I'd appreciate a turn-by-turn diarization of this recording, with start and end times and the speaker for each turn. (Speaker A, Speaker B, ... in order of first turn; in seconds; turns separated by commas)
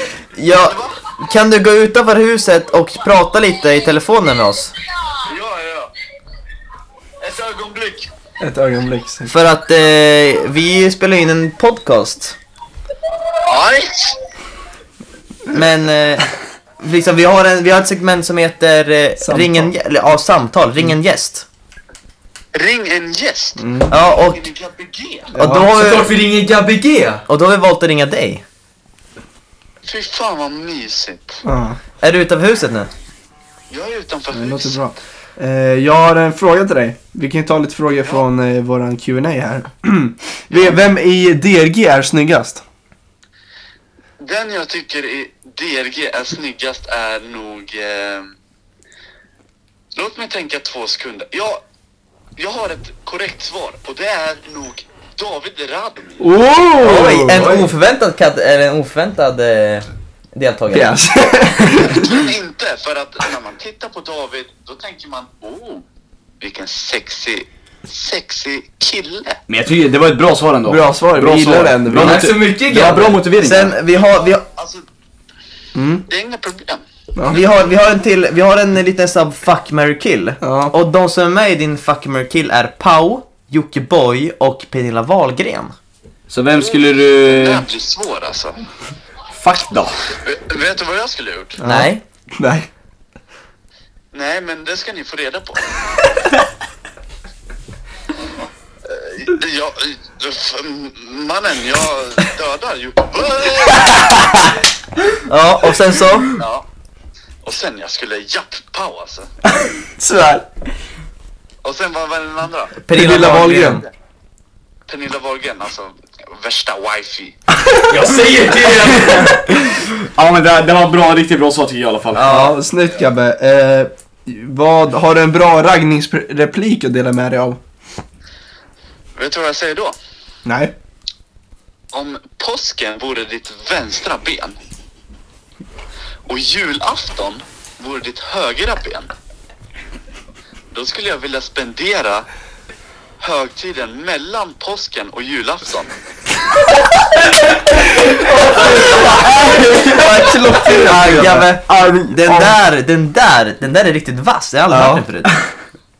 Speaker A: 0.3-4.7, Speaker B: 0.6-1.0, Speaker B: 5.2-5.9, Speaker B: 7.2-8.1, Speaker C: 8.4-9.3, Speaker A: 9.3-12.4, Speaker B: 13.4-14.2, Speaker A: 15.5-21.4, Speaker C: 19.2-19.7, Speaker B: 22.5-25.3, Speaker C: 23.6-23.9, Speaker A: 23.9-24.4, Speaker C: 25.3-25.7, Speaker A: 25.4-26.1, Speaker D: 25.7-27.2, Speaker A: 27.3-28.4, Speaker B: 29.8-31.4, Speaker C: 31.4-31.8, Speaker A: 32.0-32.9, Speaker B: 33.7-34.8, Speaker C: 34.3-42.6, Speaker B: 40.5-40.8, Speaker B: 44.2-48.3, Speaker B: 49.9-51.6, Speaker B: 52.4-56.3, Speaker C: 56.2-57.6, Speaker A: 56.8-61.0, Speaker D: 57.1-57.6, Speaker C: 60.7-62.3, Speaker B: 61.8-65.8, Speaker B: 66.4-69.4, Speaker E: 69.5-73.8, Speaker C: 70.7-72.3, Speaker D: 72.0-73.2, Speaker A: 73.4-74.4, Speaker B: 74.5-74.8, Speaker C: 75.7-76.0, Speaker B: 76.1-76.8, Speaker A: 77.3-85.7, Speaker C: 80.4-80.7, Speaker E: 86.3-87.7, Speaker B: 86.5-88.6, Speaker E: 89.3-89.9, Speaker B: 90.2-91.6, Speaker C: 91.6-92.7, Speaker A: 91.6-92.0, Speaker B: 94.1-95.8, Speaker B: 98.8-104.3, Speaker A: 105.2-106.3, Speaker B: 106.3-106.6, Speaker B: 107.4-109.3, Speaker C: 109.5-110.5, Speaker B: 111.6-112.8, Speaker A: 112.8-113.8, Speaker C: 112.9-113.8, Speaker B: 114.9-117.3, Speaker D: 117.9-119.4, Speaker E: 119.3-122.4, Speaker A: 122.1-122.6, Speaker C: 122.2-127.6, Speaker B: 129.1-129.9, Speaker C: 130.4-130.7, Speaker B: 131.9-134.6, Speaker B: 136.2-139.1, Speaker B: 140.7-142.3, Speaker B: 143.2-145.9, Speaker D: 148.3-148.7, Speaker A: 148.6-155.3, Speaker C: 148.6-152.6, Speaker C: 154.7-155.4